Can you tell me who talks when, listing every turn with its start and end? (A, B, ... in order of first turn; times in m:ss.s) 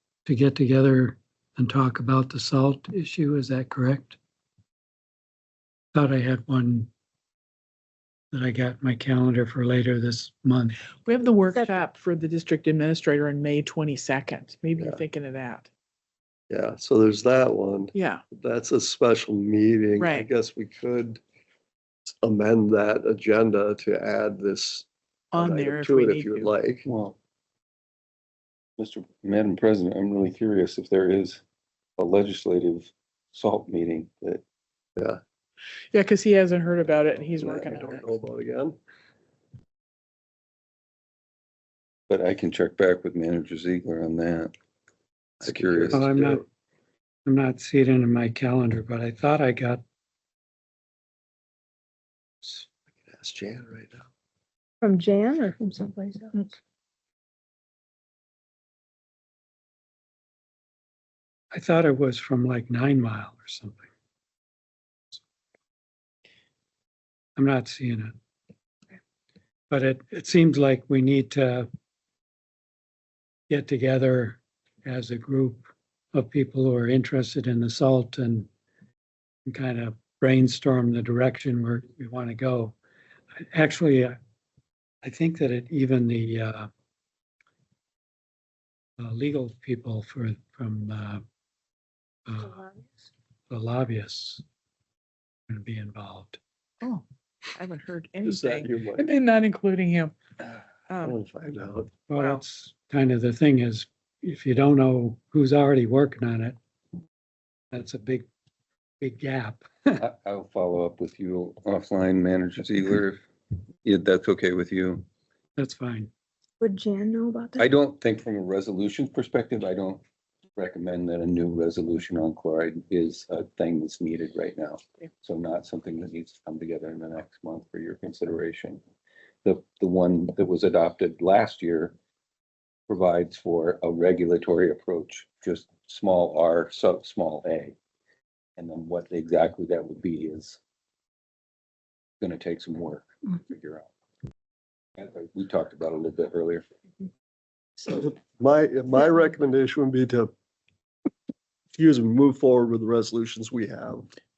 0:00.2-0:04.2 A
0:05.9-0:06.9 A
0:08.3-0:10.8 A
0:11.0-0:15.7 B
0:16.5-0:21.2 C
0:17.9-0:18.2 B
0:20.0-0:20.3 B
0:22.2-0:26.8 C
0:25.3-0:26.5 B
0:26.9-0:27.1 D
0:28.8-0:31.4 D
0:32.0-0:34.4 D
0:35.9-0:38.0 B
0:37.4-0:38.8 C
0:42.1-0:44.5 D
0:45.4-0:46.0 D
0:45.4-0:46.4 C
0:45.9-0:46.4 A
0:47.2-0:49.8 A
0:52.4-0:54.1 C
0:54.8-0:56.4 E
1:01.5-1:03.9 A
1:07.4-1:08.1 A
1:09.7-1:11.7 A
1:13.5-1:18.5 A
1:19.5-1:22.7 A
1:23.4-1:24.2 A
1:25.0-1:26.7 A
1:29.0-1:31.2 A
1:32.3-1:32.6 A
1:33.5-1:34.4 A
1:35.5-1:36.4 A
1:36.8-1:40.1 B
1:38.2-1:39.0 C
1:40.9-1:41.2 B
1:41.0-1:41.9 C
1:42.1-1:46.6 A
1:42.1-1:42.4 B
1:47.7-1:48.2 A
1:49.0-1:50.0 A
1:50.0-1:53.2 D
1:53.8-1:55.0 D
1:55.6-1:56.1 A
1:56.6-1:57.6 E
1:57.6-2:00.0 D
2:00.6-2:08.8 D
2:09.4-2:11.9 D
2:12.9-2:17.8 D
2:18.6-2:20.6 D
2:22.2-2:23.9 D
2:25.0-2:26.6 D
2:27.8-2:30.3 C
2:31.7-2:34.1 C